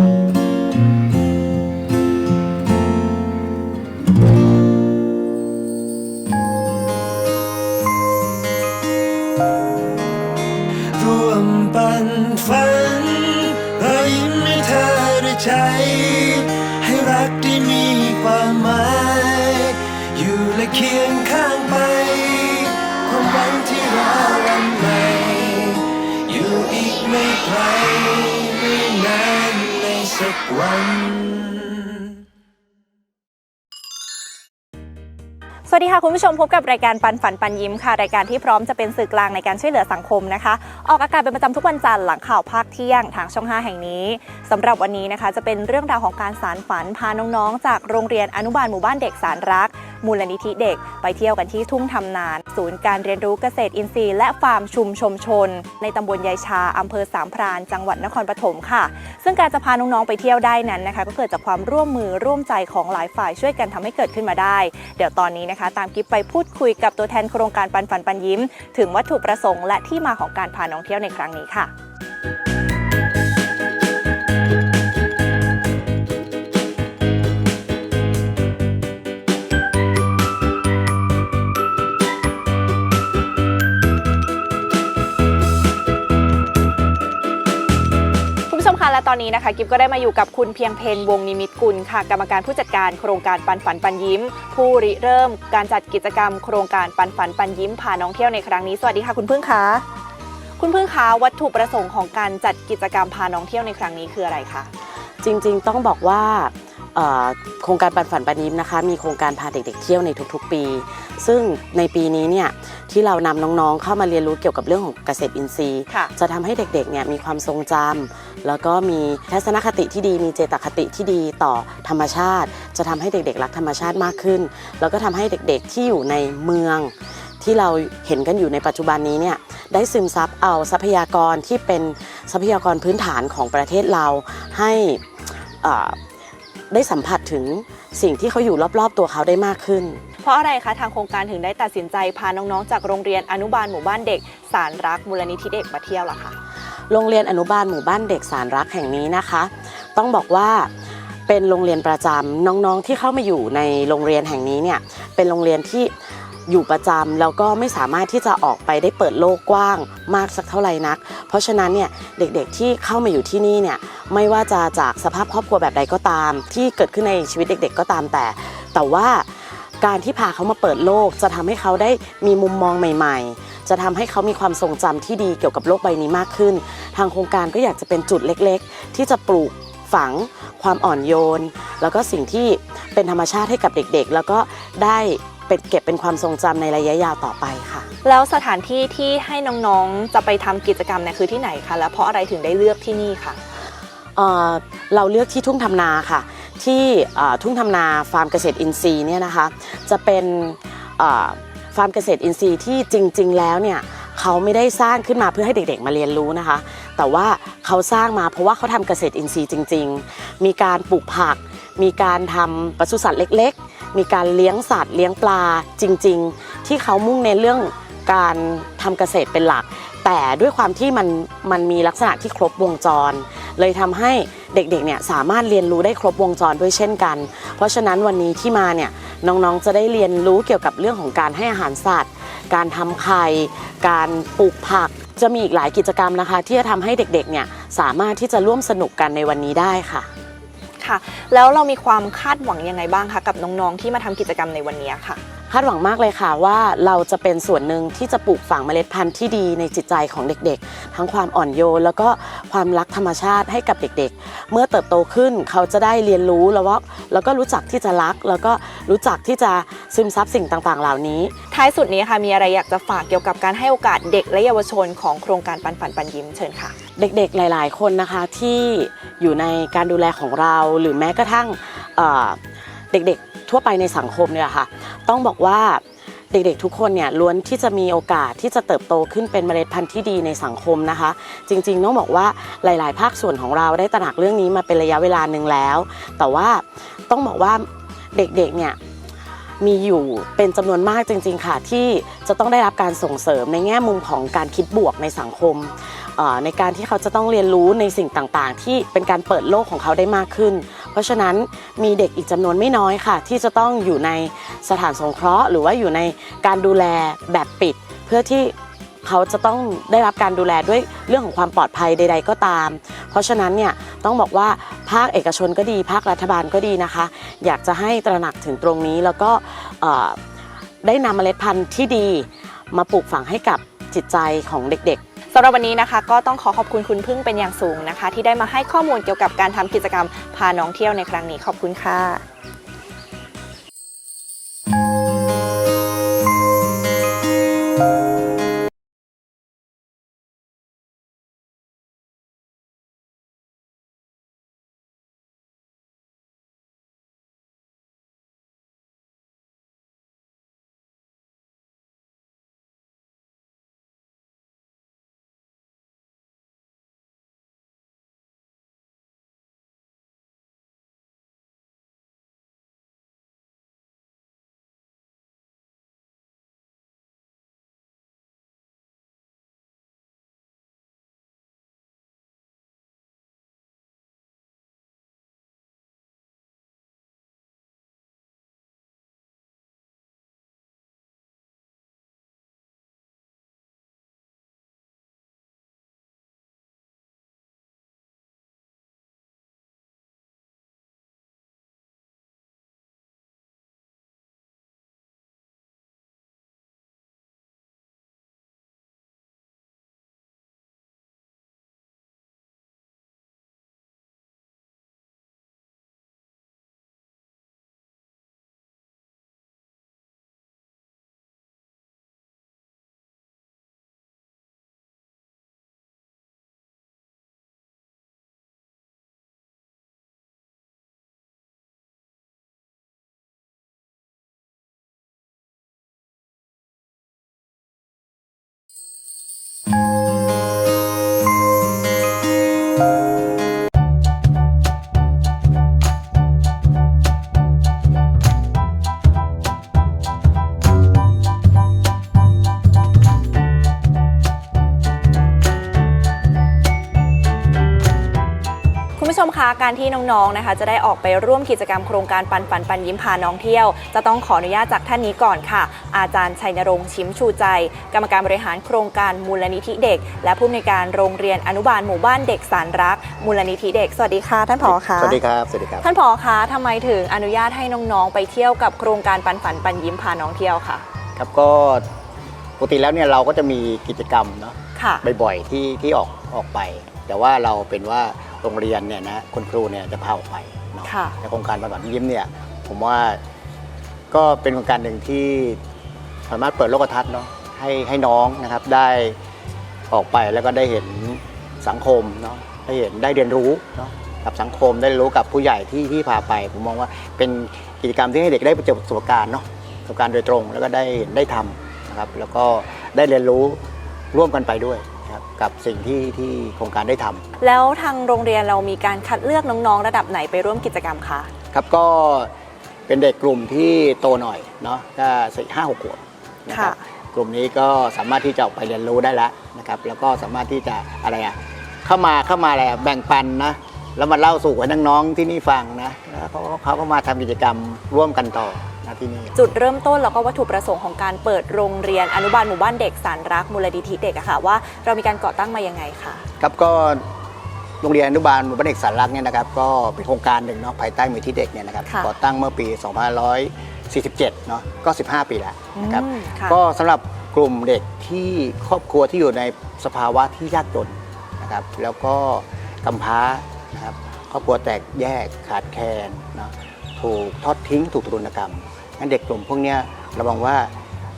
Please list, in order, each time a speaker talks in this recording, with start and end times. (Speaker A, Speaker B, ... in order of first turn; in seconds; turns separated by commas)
Speaker A: 10.9-32.0, Speaker B: 35.7-71.7, Speaker B: 88.5-99.8, Speaker B: 100.6-104.7, Speaker C: 105.2-135.0, Speaker C: 135.6-136.0, Speaker C: 136.7-140.0, Speaker B: 140.2-146.3, Speaker C: 146.9-150.7, Speaker C: 151.3-155.9, Speaker C: 156.5-187.9, Speaker B: 188.0-193.4, Speaker C: 194.2-240.1, Speaker B: 240.8-245.2, Speaker C: 245.5-261.3, Speaker B: 261.5-266.8, Speaker C: 266.9-272.4, Speaker C: 272.9-288.8, Speaker C: 289.6-320.2, Speaker C: 320.8-325.0, Speaker B: 325.3-332.2, Speaker B: 449.0-465.2, Speaker D: 464.6-465.9, Speaker B: 465.8-470.8, Speaker D: 471.1-471.9, Speaker D: 472.6-483.2, Speaker B: 474.8-475.0, Speaker B: 480.8-481.1, Speaker D: 484.1-485.6, Speaker D: 486.3-489.2, Speaker D: 489.9-507.2, Speaker B: 507.4-511.3, Speaker D: 511.5-512.3, Speaker D: 512.9-529.4, Speaker B: 516.5-516.8, Speaker B: 529.3-536.2, Speaker D: 536.4-537.1, Speaker D: 537.8-560.7, Speaker B: 545.8-546.6